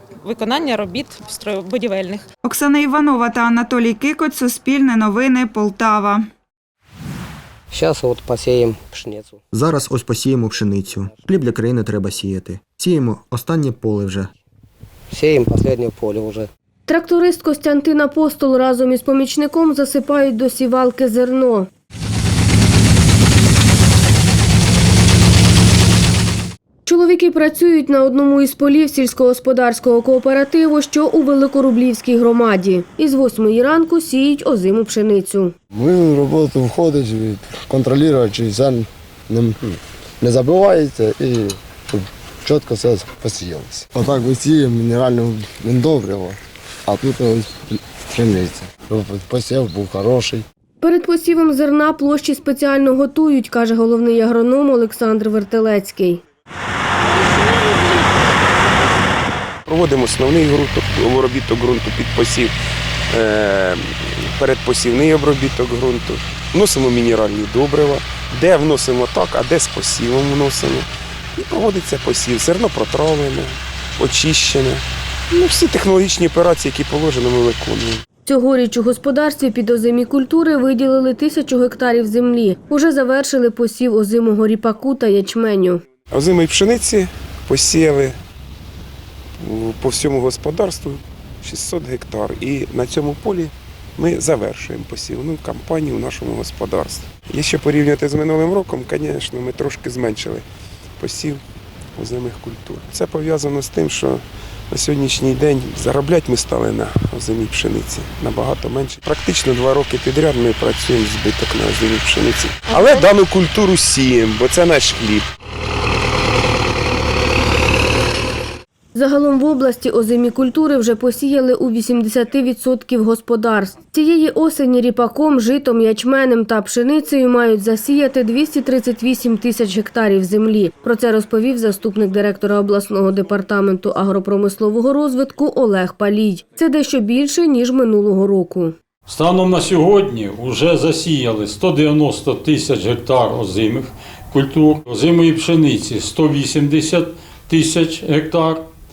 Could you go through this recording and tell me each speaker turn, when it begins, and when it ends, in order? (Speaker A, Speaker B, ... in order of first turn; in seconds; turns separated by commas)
Speaker A: 0.2-2.2, Speaker B: 2.4-6.3, Speaker C: 7.7-9.4, Speaker D: 9.5-14.3, Speaker C: 15.1-16.5, Speaker E: 16.9-21.7, Speaker E: 26.9-35.5, Speaker F: 35.8-46.4, Speaker F: 46.9-50.4, Speaker E: 50.8-56.2, Speaker G: 59.6-62.5, Speaker G: 63.1-78.0, Speaker E: 78.2-85.8, Speaker G: 86.1-88.2, Speaker G: 89.4-100.4, Speaker G: 101.0-101.4, Speaker G: 102.0-115.3, Speaker E: 118.9-138.7, Speaker H: 139.1-148.7